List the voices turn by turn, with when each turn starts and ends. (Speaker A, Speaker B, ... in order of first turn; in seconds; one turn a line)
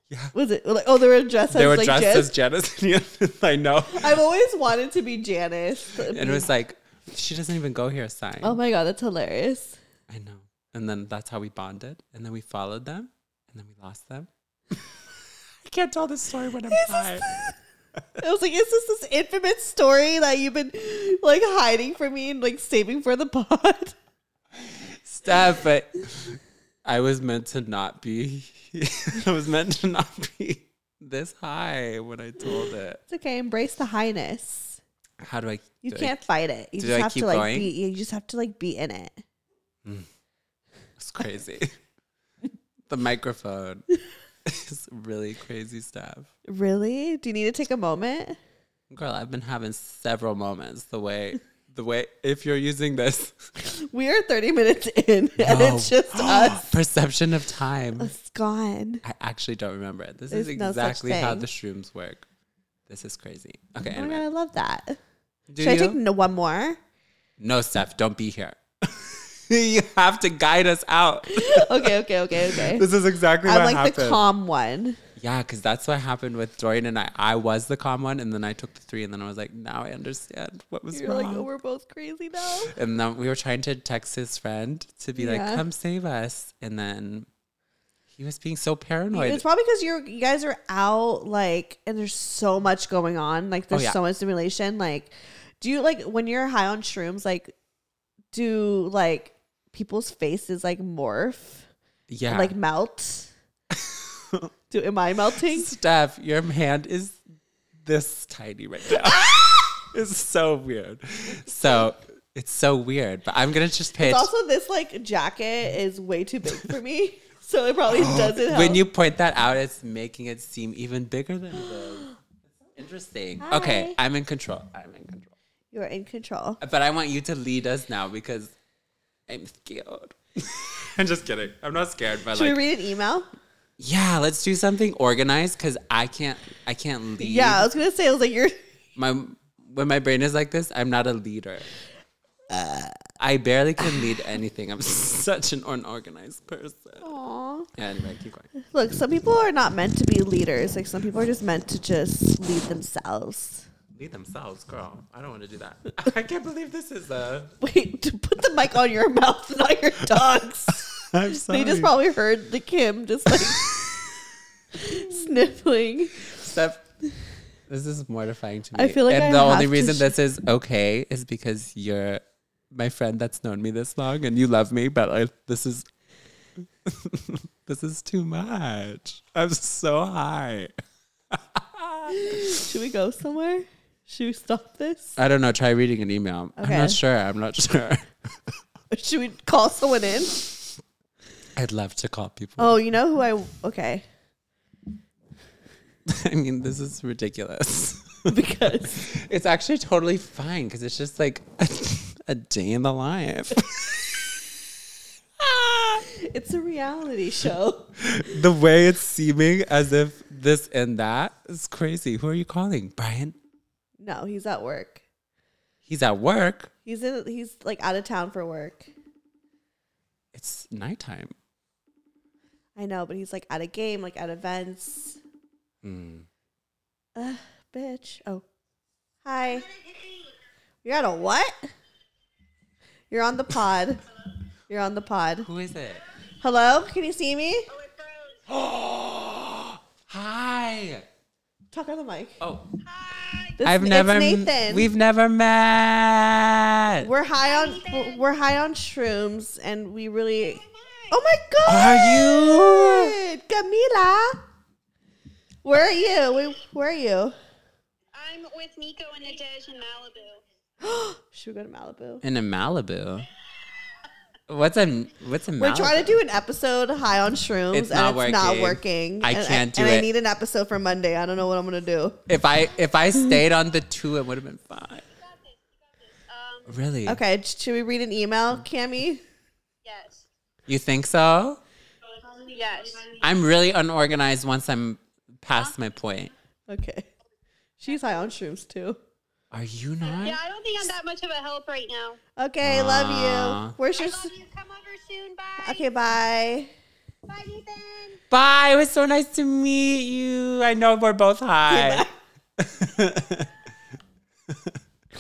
Speaker A: 0.1-0.3
Speaker B: 0.3-2.3
Speaker A: 1.5-4.2
Speaker B: 3.9-6.5
Speaker A: 6.1-8.6
Speaker B: 8.4-9.8
Speaker A: 10.1-17.2
Speaker B: 16.7-17.5
Speaker B: 18.2-23.9
Speaker A: 24.6-33.0
Speaker B: 33.1-34.8
Speaker A: 35.2-36.1
Speaker B: 35.8-39.2
Speaker A: 36.8-37.7
Speaker A: 41.0-41.7
Speaker A: 42.9-43.9
Speaker A: 44.4-46.3
Speaker B: 46.5-48.4
Speaker A: 48.9-53.5
Speaker B: 53.6-56.7
Speaker A: 55.4-58.1
Speaker B: 58.0-59.0
Speaker A: 59.0-62.2
Speaker B: 60.3-61.5
Speaker A: 62.9-64.2
Speaker B: 63.9-65.0
Speaker A: 65.5-66.0
Speaker B: 65.6-66.8
Speaker A: 67.4-74.2
Speaker B: 71.3-72.9
Speaker B: 73.4-75.0
Speaker A: 75.2-81.5
Speaker B: 80.9-82.7
Speaker A: 82.7-87.3
Speaker B: 85.1-85.6
Speaker A: 88.1-89.4
Speaker B: 89.1-97.5
Speaker A: 93.7-94.0
Speaker B: 98.3-101.7
Speaker A: 102.1-102.5
Speaker B: 102.3-103.3
Speaker A: 103.7-104.5
Speaker B: 104.7-105.7
Speaker A: 105.5-107.2
Speaker A: 107.8-114.3
Speaker B: 114.0-118.8
Speaker A: 117.9-125.3
Speaker B: 123.4-124.0
Speaker B: 125.7-126.6
Speaker A: 126.6-128.5
Speaker A: 129.3-132.6
Speaker B: 132.3-133.3
Speaker A: 133.8-137.7
Speaker B: 137.2-138.6
Speaker A: 138.9-141.7
Speaker B: 142.5-143.0
Speaker A: 143.2-147.1
Speaker B: 147.0-147.7
Speaker A: 147.7-148.5
Speaker B: 148.7-153.7
Speaker A: 153.9-157.5
Speaker B: 157.6-163.8
Speaker A: 160.7-161.9
Speaker A: 163.3-163.9
Speaker B: 164.8-166.3
Speaker A: 164.8-165.3
Speaker A: 166.2-166.9
Speaker A: 167.7-175.9
Speaker B: 168.7-170.1
Speaker A: 176.8-180.7
Speaker A: 181.3-182.4
Speaker B: 182.1-185.2
Speaker A: 185.2-188.1
Speaker B: 186.6-187.0
Speaker B: 188.9-190.4
Speaker A: 191.6-192.8
Speaker B: 192.6-194.0
Speaker A: 196.1-198.3
Speaker B: 198.3-199.0
Speaker A: 198.8-204.4
Speaker A: 205.4-206.0
Speaker B: 206.0-207.9
Speaker A: 208.0-213.4
Speaker B: 214.0-215.0
Speaker A: 215.9-216.7
Speaker B: 216.9-218.9
Speaker A: 220.3-221.3
Speaker B: 222.8-225.2
Speaker A: 225.8-226.3
Speaker B: 227.2-228.4
Speaker B: 229.2-229.7
Speaker B: 230.8-231.6
Speaker B: 233.1-234.0
Speaker B: 234.7-235.5
Speaker A: 235.4-236.0
Speaker B: 236.4-237.7
Speaker C: 237.7-238.4
Speaker A: 238.5-241.1
Speaker B: 241.7-242.4
Speaker A: 242.4-242.7
Speaker C: 242.8-243.6
Speaker B: 243.6-244.9
Speaker A: 243.6-247.1
Speaker B: 247.0-254.4
Speaker C: 247.3-248.3
Speaker C: 250.4-251.2
Speaker A: 251.7-253.1
Speaker B: 255.6-257.4
Speaker C: 258.1-260.4
Speaker B: 260.8-262.2
Speaker A: 262.2-263.3
Speaker A: 264.5-266.2
Speaker B: 265.6-272.2
Speaker A: 267.7-270.1
Speaker A: 272.3-275.0
Speaker C: 275.2-276.7
Speaker A: 276.7-277.2
Speaker B: 277.1-279.2
Speaker C: 279.8-280.3
Speaker A: 280.7-281.6
Speaker C: 282.2-283.2
Speaker A: 283.2-286.3
Speaker B: 286.7-287.1
Speaker B: 287.8-289.0
Speaker A: 289.5-290.4
Speaker C: 290.1-292.2
Speaker B: 292.4-294.3
Speaker A: 292.6-293.8
Speaker C: 293.9-295.9
Speaker B: 295.6-296.7
Speaker C: 297.3-298.2
Speaker A: 298.3-302.1
Speaker B: 301.7-302.1
Speaker A: 302.6-303.5
Speaker A: 304.5-304.8